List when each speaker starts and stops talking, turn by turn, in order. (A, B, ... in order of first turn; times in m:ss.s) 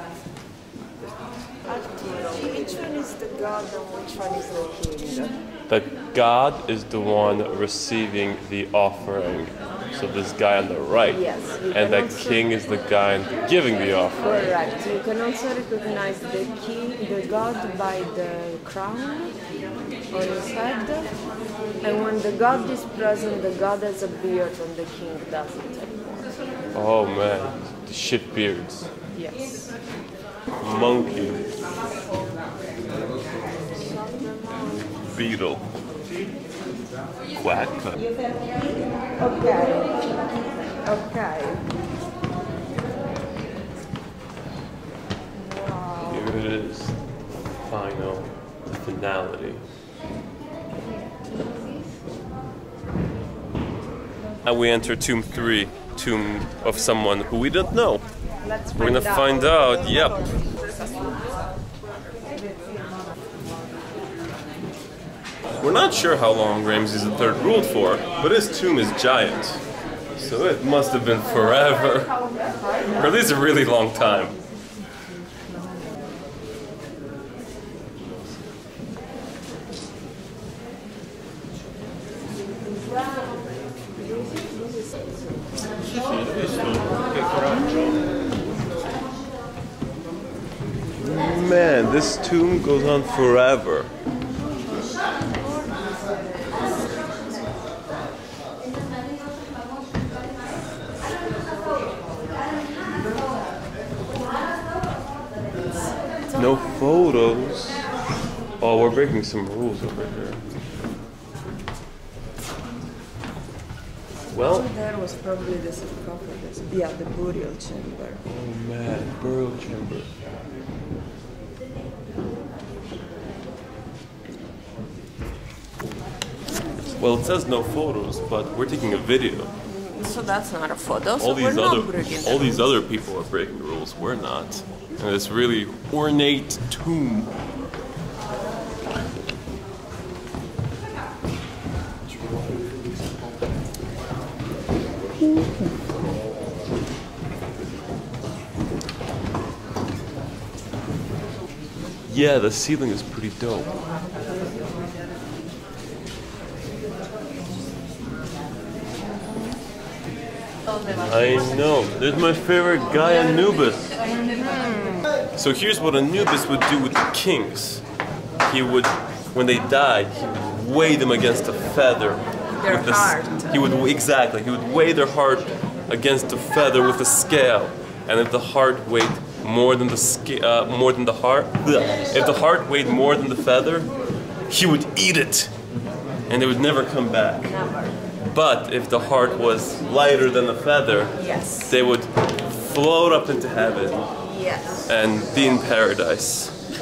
0:01.6-0:05.4 A
0:05.7-0:14.6 B
0:11.1-0:12.5 A
0:14.2-0:19.4 A
0:20.1-0:21.1 A
0:21.8-0:26.3 A
0:26.7-0:28.9 B
0:29.1-0:29.8 A
0:30.6-0:31.5 B
0:33.7-0:35.2 A
0:35.0-0:35.7 B
0:37.4-0:38.0 B
0:39.2-0:40.1 A
0:40.8-0:41.7 A
0:45.4-0:46.3 A
0:46.0-0:47.0 B
0:47.6-0:49.6 B
0:54.4-0:58.1 B
0:58.4-1:01.4 A
0:58.8-1:00.2 B
1:05.6-1:09.6 B
1:10.2-1:12.2 B
1:12.8-1:14.4 B
1:25.9-1:27.9 B
1:31.0-1:33.9 B
1:35.3-1:37.3 A
1:46.3-1:47.9 B
1:48.6-1:50.4 B
1:54.3-1:54.7 B
1:54.3-1:58.2 A
1:58.2-2:00.1 B
2:06.8-2:09.5 B
2:09.6-2:12.7 A
2:11.2-2:17.3 B
2:32.0-2:33.7 B
2:41.0-2:44.0 B
2:44.2-2:45.1 A
2:45.3-2:47.8 B
2:48.4-3:03.9 B
2:52.5-2:53.6 A
3:04.5-3:05.5 B
3:06.3-3:07.5 B
3:07.4-3:08.0 A
3:08.2-3:14.1 B
3:11.2-3:11.8 A
3:14.2-3:14.9 A
3:14.8-3:16.6 B